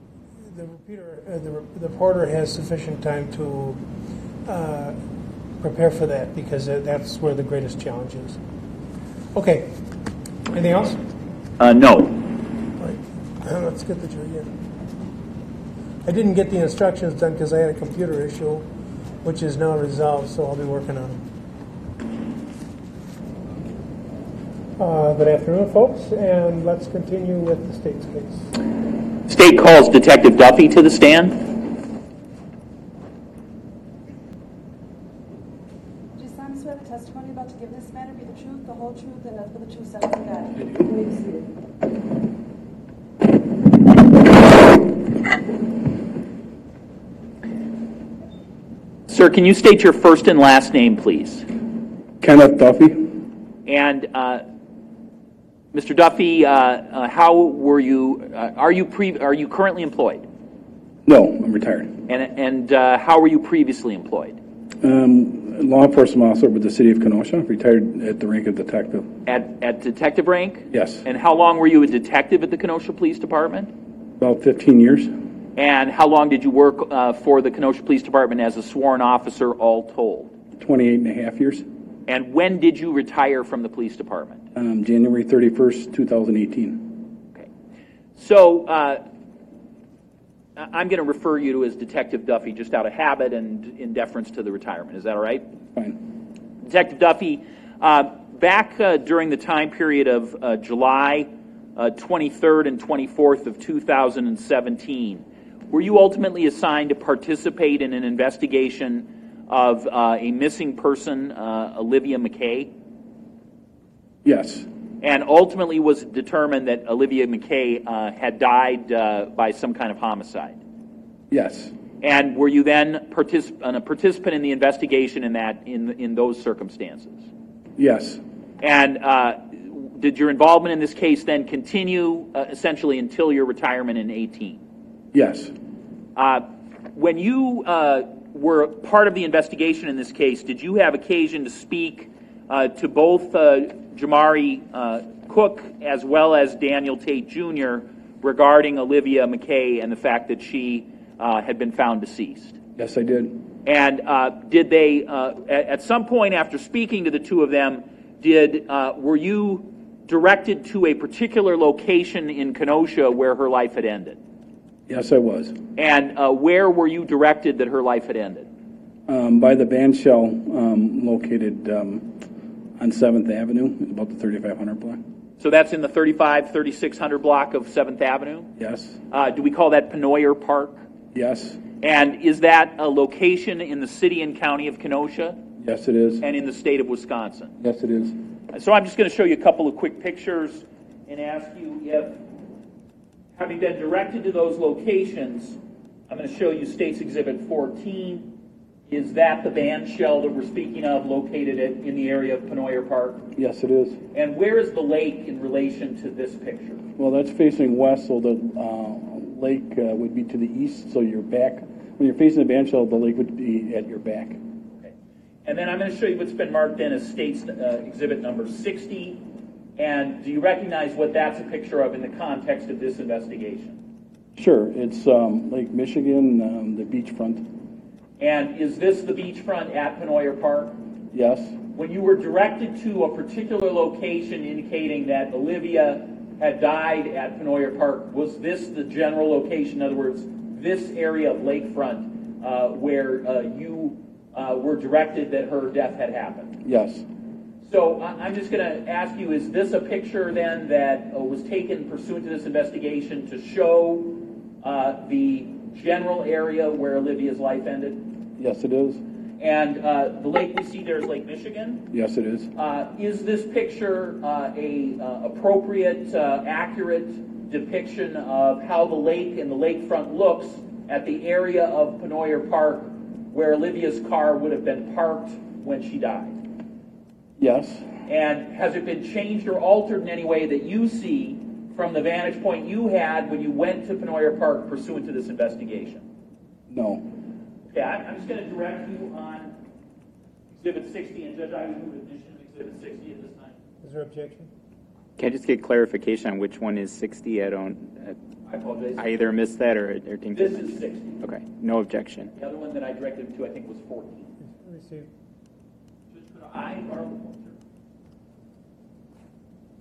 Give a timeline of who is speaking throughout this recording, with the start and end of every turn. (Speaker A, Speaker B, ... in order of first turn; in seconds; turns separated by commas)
Speaker A: 0.4-3.8, Speaker A: 4.4-5.0, Speaker A: 5.6-8.4, Speaker A: 9.3-9.8, Speaker A: 10.5-11.0, Speaker B: 11.6-12.2, Speaker A: 12.8-14.5, Speaker A: 16.0-18.6, Speaker A: 19.2-21.2, Speaker A: 24.8-28.5, Speaker B: 29.3-31.5, Speaker C: 36.1-41.5, Speaker B: 49.1-51.5, Speaker D: 52.2-53.2, Speaker B: 53.6-54.4, Speaker B: 55.7-60.2, Speaker D: 61.0-62.0, Speaker B: 62.1-64.4, Speaker D: 64.8-69.2, Speaker B: 69.2-73.7, Speaker D: 70.7-71.0, Speaker D: 74.2-75.2, Speaker B: 75.5-80.3, Speaker D: 80.6-81.7, Speaker B: 82.1-84.4, Speaker D: 84.5-87.0, Speaker B: 88.2-89.0, Speaker B: 90.6-95.5, Speaker B: 96.6-112.7, Speaker D: 114.2-114.7, Speaker B: 115.0-120.6, Speaker D: 121.3-121.7, Speaker B: 122.0-127.3, Speaker D: 127.8-128.2, Speaker B: 128.6-134.6, Speaker D: 135.1-135.5, Speaker B: 136.2-152.6, Speaker D: 152.8-153.4, Speaker B: 153.6-164.2, Speaker D: 164.9-165.6, Speaker B: 165.8-168.5, Speaker D: 169.1-172.2, Speaker D: 172.8-175.0, Speaker B: 175.4-178.5, Speaker D: 178.6-179.0, Speaker B: 179.1-180.8, Speaker D: 181.1-181.6, Speaker B: 181.8-185.4, Speaker D: 185.6-186.2, Speaker B: 186.2-187.5, Speaker D: 187.6-188.2, Speaker B: 188.5-192.2, Speaker B: 193.3-195.6, Speaker B: 196.1-198.3, Speaker B: 198.9-203.2, Speaker D: 203.3-204.0, Speaker B: 204.1-206.8, Speaker D: 207.0-214.4, Speaker B: 215.4-219.2, Speaker B: 219.8-223.8, Speaker D: 224.3-227.5, Speaker B: 228.2-230.8, Speaker D: 231.1-231.6, Speaker B: 231.7-246.6, Speaker D: 246.6-247.0, Speaker B: 247.6-258.1, Speaker D: 258.4-259.0, Speaker B: 259.4-261.9, Speaker D: 261.9-262.5, Speaker B: 262.5-276.3, Speaker D: 277.4-277.9, Speaker B: 278.1-286.0, Speaker D: 286.7-287.1, Speaker B: 287.7-289.5, Speaker B: 290.5-293.6, Speaker A: 293.8-294.5, Speaker E: 295.2-298.2, Speaker B: 298.4-299.1, Speaker E: 299.0-300.6, Speaker B: 300.3-301.2, Speaker E: 301.2-302.3, Speaker B: 302.4-304.3, Speaker A: 304.5-305.1, Speaker B: 306.1-307.5